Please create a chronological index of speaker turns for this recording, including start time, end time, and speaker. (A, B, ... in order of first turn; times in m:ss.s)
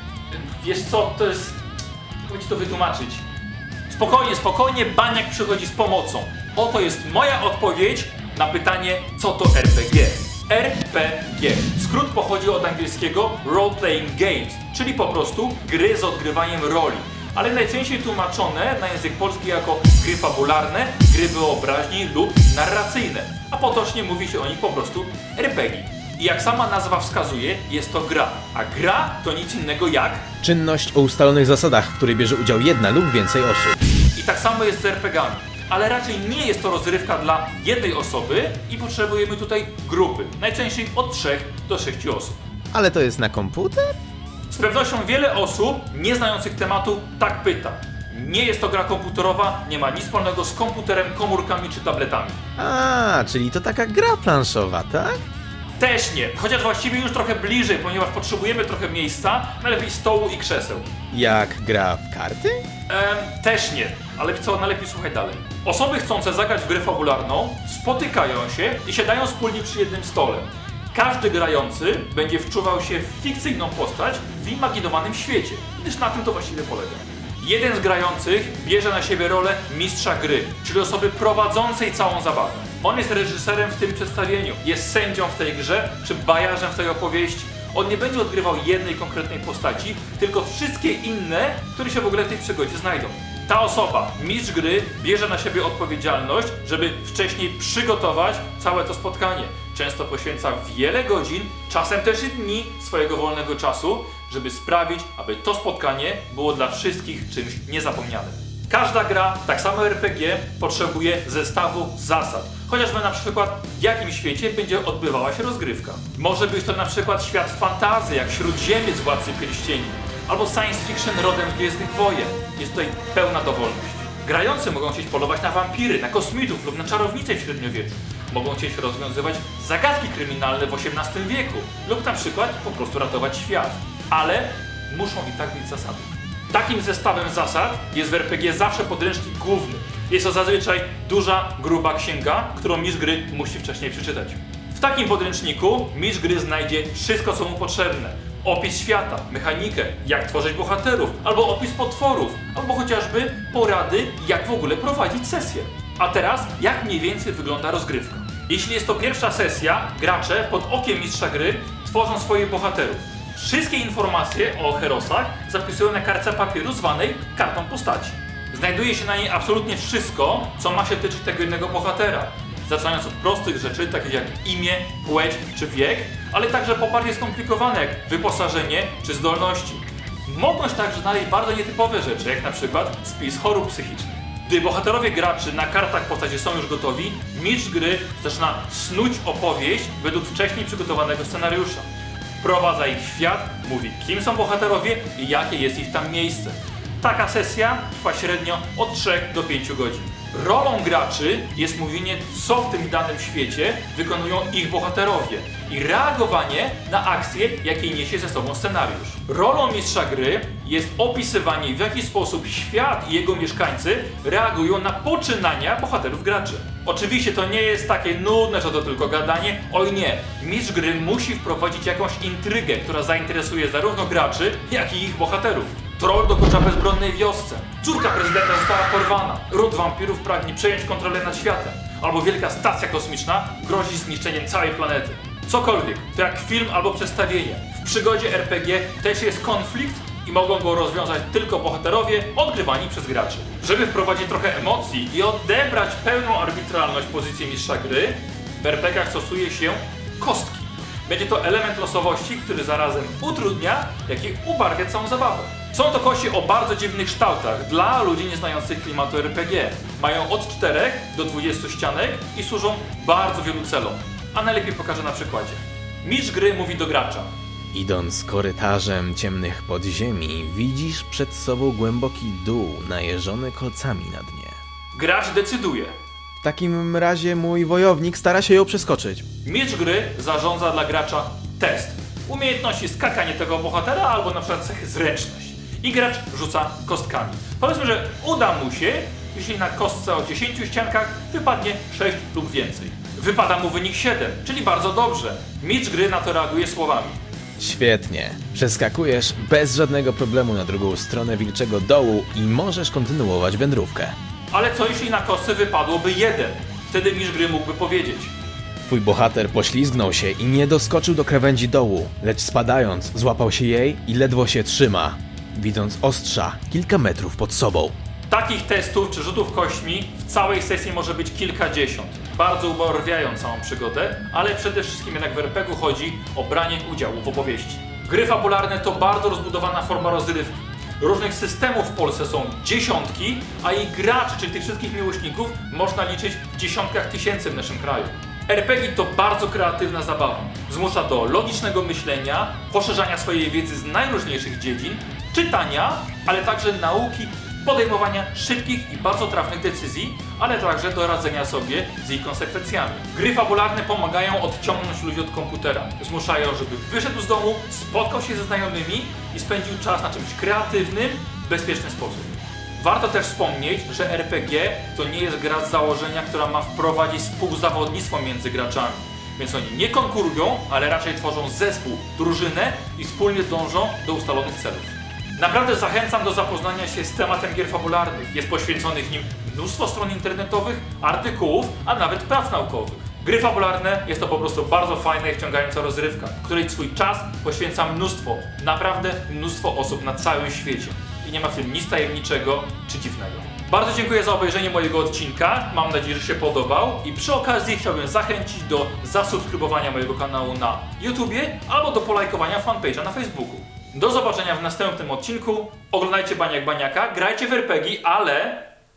0:00.3-0:01.6 A
0:02.2-0:03.2 A
0:03.9-0:30.3 A
0:30.4-0:33.8 B
0:34.2-0:42.4 A
0:42.7-0:43.9 B
0:44.5-0:52.4 A
0:52.6-0:55.2 B
0:55.8-1:00.9 A
1:01.1-1:02.6 B
1:02.9-3:11.8 A
3:12.4-4:27.3 A
4:27.7-4:34.6 B
4:34.9-4:35.9 A
4:36.4-4:39.2 B
4:39.4-4:57.2 A
4:57.6-5:04.1 B
5:04.5-5:08.3 A
5:08.8-5:17.9 B
5:18.3-6:48.7 A